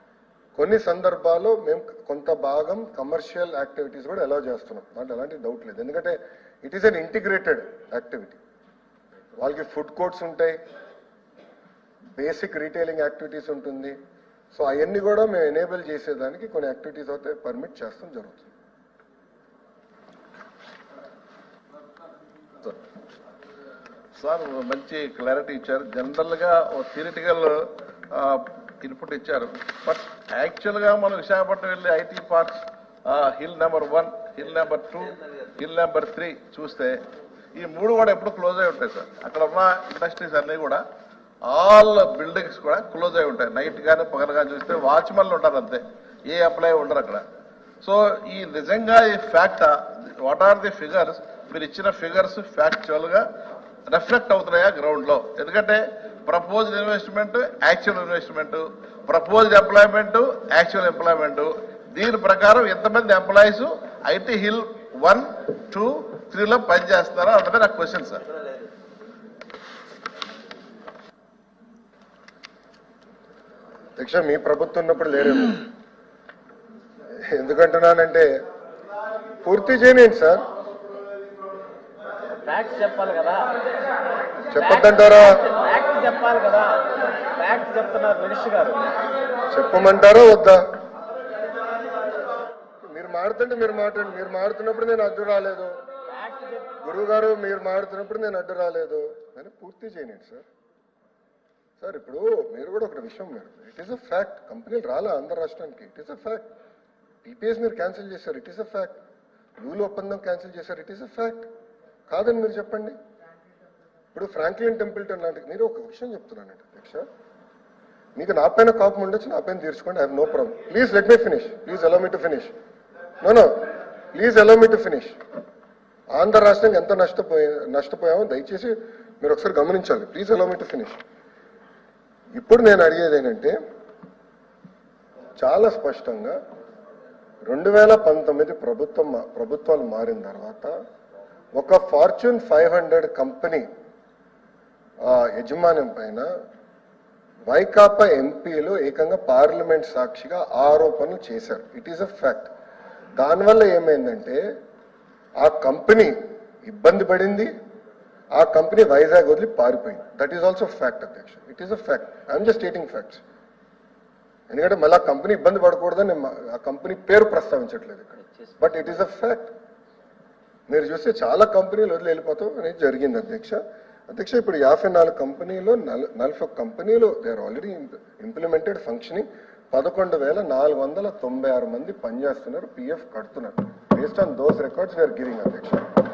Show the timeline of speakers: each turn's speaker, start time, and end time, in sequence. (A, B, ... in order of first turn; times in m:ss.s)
0:00.6-0:08.4 A
0:09.4-0:10.6 A
0:12.2-0:14.0 A
0:14.5-0:18.5 A
0:24.2-0:37.0 B
0:37.6-0:40.8 B
0:41.5-0:47.2 B
0:47.8-0:53.2 B
0:53.9-1:08.2 B
1:14.0-1:15.7 A
1:17.2-1:18.3 A
1:19.4-1:20.4 A
1:22.4-1:23.6 C
1:24.5-1:25.5 A
1:24.6-1:29.0 C
1:29.5-1:30.6 A
1:32.8-1:35.8 A
1:36.2-1:36.7 C
1:36.8-1:40.5 A
1:41.8-1:46.4 A
1:47.2-1:49.0 A
1:49.6-1:51.5 A
1:52.1-1:53.0 A
1:54.1-1:57.1 A
1:58.2-2:02.5 A
2:03.2-2:03.5 A
2:04.1-2:05.2 A
2:06.2-2:11.0 A
2:12.4-2:13.6 A
2:15.4-2:16.4 A
2:17.5-2:20.7 A
2:21.6-2:23.7 A
2:25.0-2:26.3 A
2:27.5-2:32.5 A
2:33.2-2:34.4 A
2:35.4-2:37.5 A
2:38.4-2:43.2 A
2:44.5-2:49.5 A
2:50.7-3:05.9 A